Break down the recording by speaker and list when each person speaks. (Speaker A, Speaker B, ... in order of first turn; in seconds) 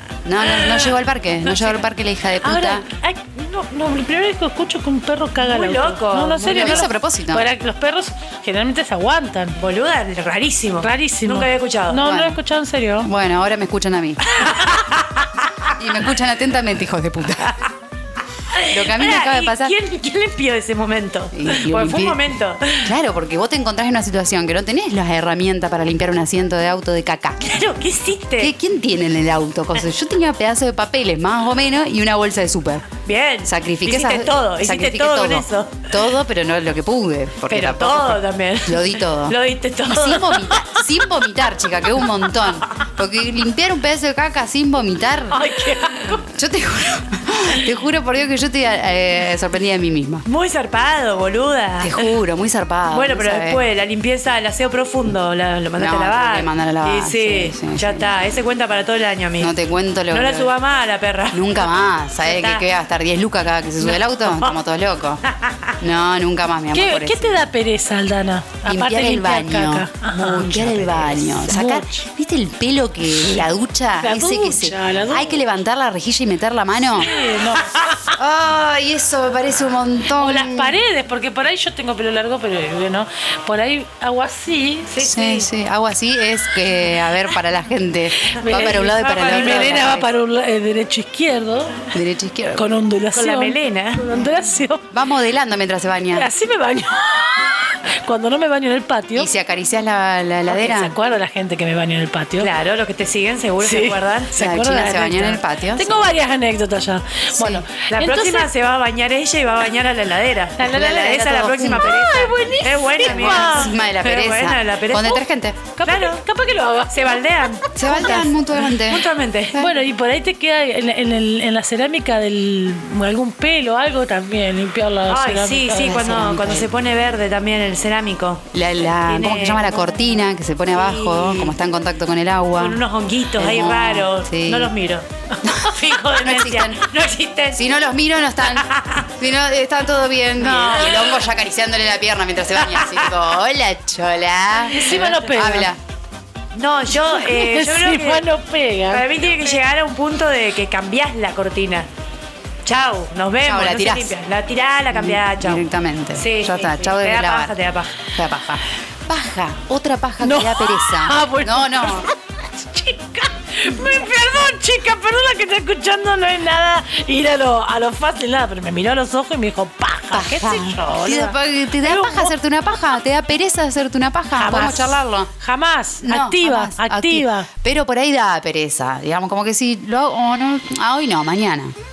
Speaker A: 0.2-2.9, 6.5-7.5, 12.0-12.4, 13.0-14.3, 15.8-17.6, 18.7-19.7, 21.3-22.2, 22.8-27.5, 28.4-32.9, 33.4-45.5, 46.3-50.2, 51.8-53.6, 55.8-58.1, 59.4-60.5, 61.3-65.2, 65.8-67.5, 68.7-77.1, 78.1-80.8, 85.0-90.1, 91.9-92.7, 94.9-96.3, 99.2-101.0, 104.4-106.1, 107.4-107.6, 110.6-112.0, 113.0-115.6, 117.8-119.8, 125.8-126.7, 128.5-132.8, 133.4-134.7, 135.4-136.8, 137.5-145.8, 153.4-154.1, 154.9-157.5, 158.1-162.1, 170.1-175.3, 176.0-181.8
Speaker B: 0.5-0.9, 1.5-1.8, 5.4-6.9, 9.6-12.0, 14.4-14.8, 18.5-22.9, 27.4-28.5, 33.0-35.9, 37.5-40.8, 50.3-52.1, 52.9-59.5, 60.1-61.7, 62.2-62.7, 63.8-64.5, 65.5-65.7, 84.9-85.5, 88.5-90.0, 93.1-94.0, 102.4-104.4, 107.9-115.2, 115.8-116.2, 116.9-119.6, 125.1-128.5, 129.0-130.0, 130.7-131.6, 132.6-137.6, 138.5-139.1, 140.4-141.2, 146.6-148.3, 148.9-151.9, 152.7-158.0
Speaker C: 2.4-9.6, 10.8-13.1, 45.3-46.3, 66.7-72.1, 74.0-75.4, 77.0-78.1, 80.2-84.9, 88.3-91.9, 92.5-94.9, 96.1-99.3, 100.5-102.5, 103.6-108.5, 110.6-113.7, 115.8-117.8, 119.6-126.1, 144.7-145.7, 147.0-149.1, 160.2-172.3, 174.4-177.5